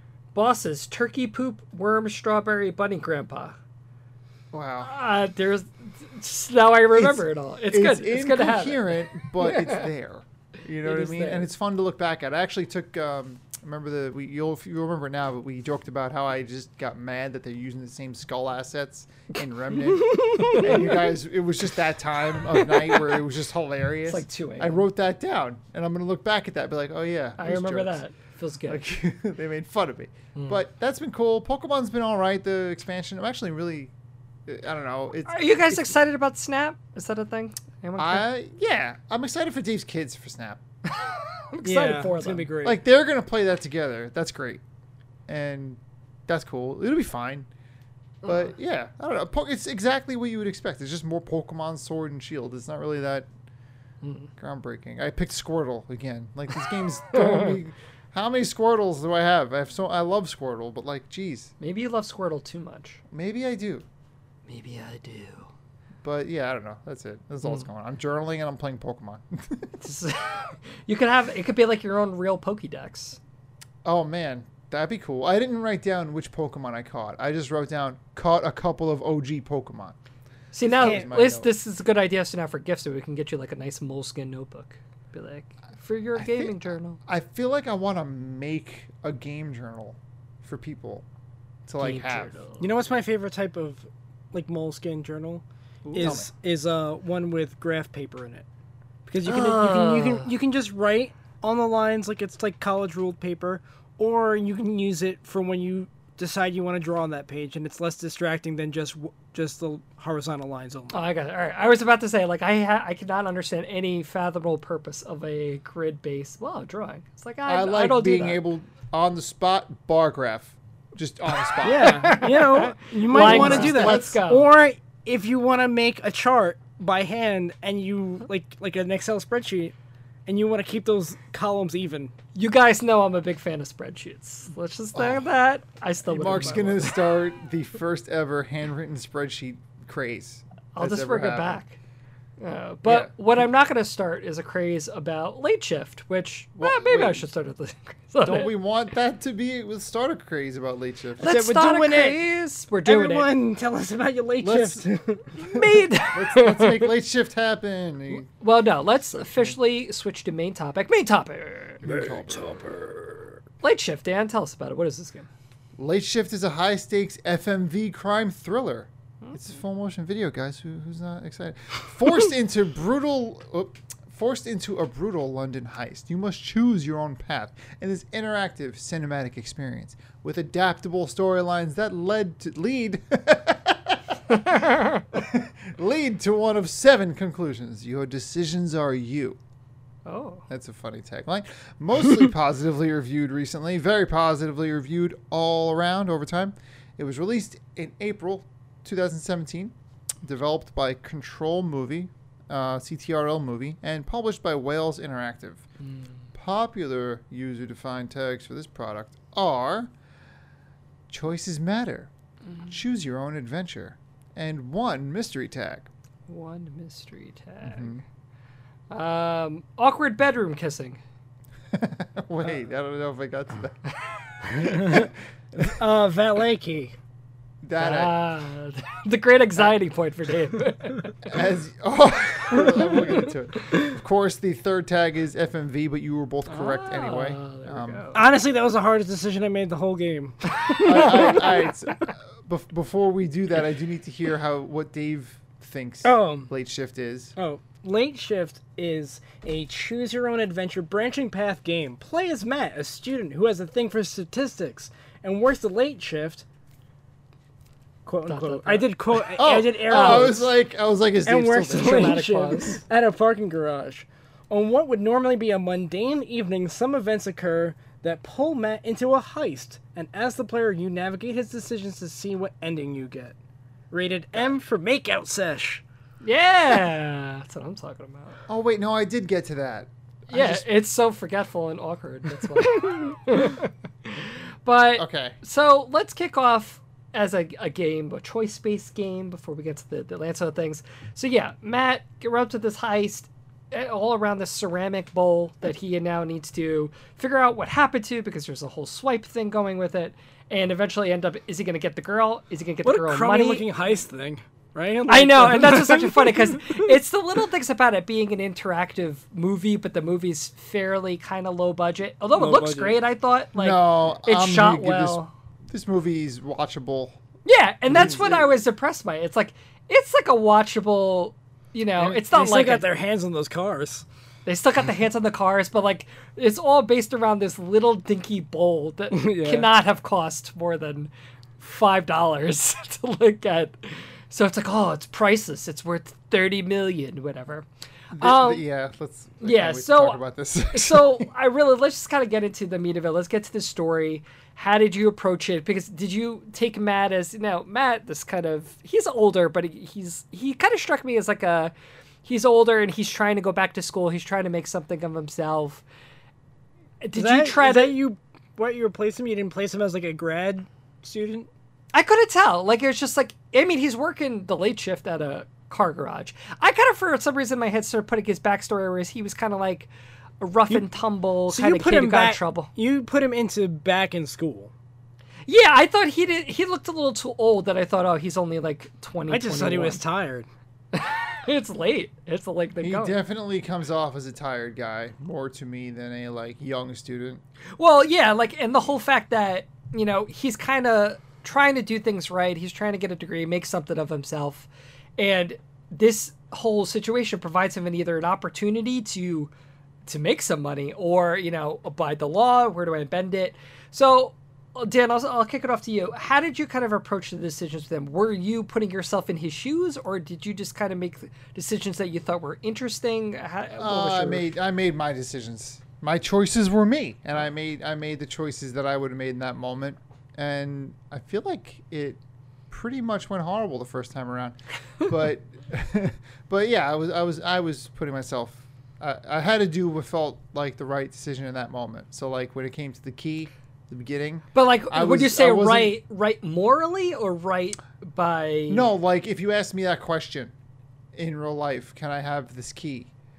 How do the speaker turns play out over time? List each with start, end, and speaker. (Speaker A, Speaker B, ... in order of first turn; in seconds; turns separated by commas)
Speaker A: 0.3-3.6, Speaker B: 4.5-4.9, Speaker A: 4.8-9.9, Speaker B: 6.9-28.0, Speaker A: 10.8-11.5, Speaker C: 20.1-20.7, Speaker A: 20.4-21.1, Speaker A: 22.4-23.2, Speaker A: 24.1-24.8, Speaker A: 27.4-28.8, Speaker B: 28.7-33.9, Speaker A: 30.3-30.6, Speaker B: 34.5-35.9, Speaker A: 35.3-38.2, Speaker B: 38.0-40.6, Speaker A: 41.0-42.5, Speaker C: 41.6-42.8, Speaker B: 42.6-44.6, Speaker B: 45.3-47.5, Speaker B: 48.2-53.3, Speaker A: 54.0-54.3, Speaker B: 54.4-61.5, Speaker A: 57.1-57.6, Speaker A: 61.6-63.0, Speaker B: 63.1-63.8, Speaker A: 64.5-65.5, Speaker B: 66.0-69.8, Speaker A: 69.8-73.2, Speaker B: 73.8-80.0, Speaker A: 80.5-87.0, Speaker B: 80.7-81.5, Speaker C: 80.8-81.0, Speaker B: 86.2-91.0, Speaker B: 91.7-92.3, Speaker A: 91.8-92.7, Speaker C: 92.6-98.5, Speaker A: 95.8-96.2, Speaker B: 95.9-96.3, Speaker C: 99.1-111.0, Speaker A: 99.2-100.3, Speaker A: 110.9-118.4, Speaker B: 117.5-122.2, Speaker A: 121.4-124.5, Speaker C: 121.6-129.7, Speaker B: 123.1-124.2, Speaker C: 130.2-132.1, Speaker A: 132.3-137.0, Speaker B: 134.9-135.2, Speaker B: 136.1-141.6, Speaker A: 140.7-141.8, Speaker A: 142.4-148.5, Speaker B: 142.8-143.1, Speaker B: 146.6-147.3, Speaker B: 148.2-151.3, Speaker A: 151.2-153.3, Speaker C: 151.2-152.2, Speaker C: 152.8-155.8, Speaker B: 154.4-158.3, Speaker A: 155.5-156.9, Speaker A: 158.4-162.0, Speaker B: 159.0-159.5, Speaker B: 161.8-162.6, Speaker C: 161.9-163.3, Speaker A: 163.6-165.3, Speaker B: 165.8-189.4, Speaker A: 184.5-185.0, Speaker A: 190.0-190.4, Speaker B: 190.5-205.6, Speaker B: 206.3-209.9, Speaker B: 211.1-212.1, Speaker B: 212.7-215.9, Speaker A: 216.3-218.0, Speaker B: 217.6-218.0, Speaker A: 218.9-221.0, Speaker B: 221.7-225.8, Speaker C: 224.5-225.1, Speaker C: 225.8-226.9, Speaker B: 227.6-228.2, Speaker A: 227.8-231.1, Speaker B: 231.2-238.1, Speaker A: 232.6-233.2, Speaker A: 236.5-238.2, Speaker C: 238.1-241.4, Speaker A: 240.7-241.7, Speaker B: 240.8-247.3, Speaker C: 246.0-246.5, Speaker C: 247.3-256.4, Speaker C: 258.0-260.5, Speaker A: 258.3-260.4, Speaker B: 259.4-262.2, Speaker C: 261.2-273.3, Speaker A: 261.7-262.8, Speaker C: 273.9-275.8, Speaker A: 276.2-278.4, Speaker B: 278.5-280.6, Speaker A: 280.3-303.6, Speaker B: 285.0-285.4, Speaker C: 302.8-307.0, Speaker A: 305.1-315.3, Speaker C: 312.3-313.0, Speaker B: 313.5-317.2, Speaker A: 317.4-322.9, Speaker C: 317.9-318.2, Speaker C: 322.0-324.0, Speaker A: 324.4-337.6, Speaker C: 329.1-329.7, Speaker B: 338.1-341.3, Speaker A: 338.2-338.6, Speaker A: 339.4-340.2, Speaker A: 340.7-351.7, Speaker A: 352.2-355.8, Speaker A: 357.0-357.9, Speaker C: 357.1-361.5, Speaker A: 361.9-369.9, Speaker A: 370.4-372.7, Speaker C: 371.5-374.7, Speaker A: 375.5-380.0, Speaker C: 379.3-380.5, Speaker A: 380.9-383.1, Speaker B: 382.8-387.4, Speaker A: 387.8-399.5, Speaker A: 400.1-414.5, Speaker B: 413.8-435.9, Speaker A: 434.5-438.9, Speaker B: 438.7-440.5, Speaker B: 441.1-443.1